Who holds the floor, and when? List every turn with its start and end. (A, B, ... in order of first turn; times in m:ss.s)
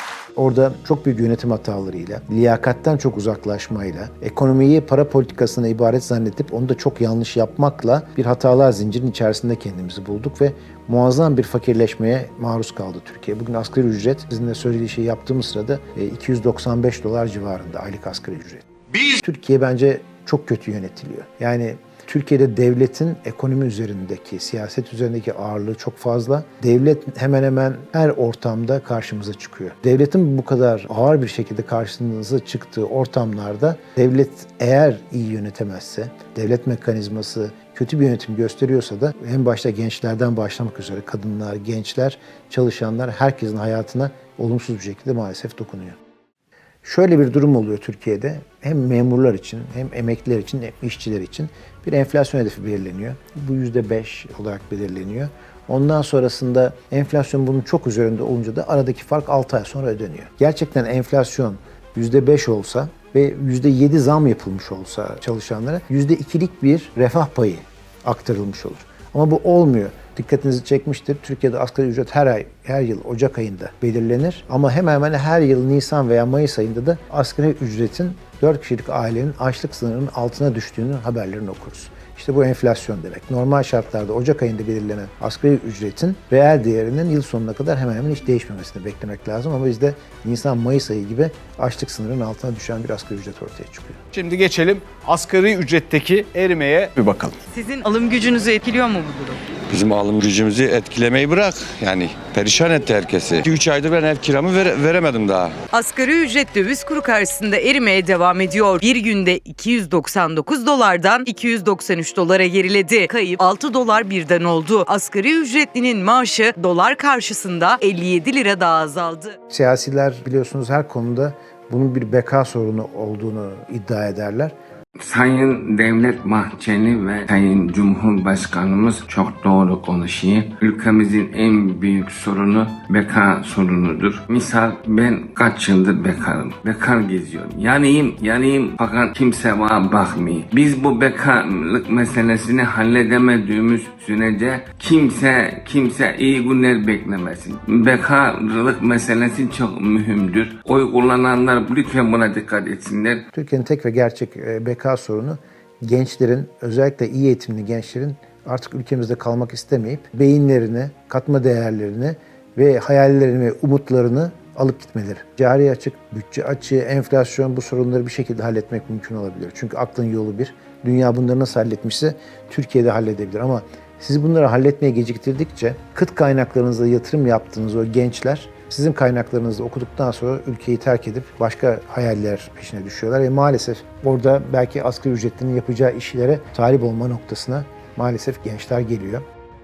0:00.4-0:46.0 A
0:46.8-1:34.0 A
1:34.1-1:37.4 B
1:37.5-1:39.4 C
1:39.7-1:45.5 D
1:45.7-1:59.4 C
1:59.5-2:04.6 A
2:05.0-2:33.2 E
2:33.3-3:09.2 A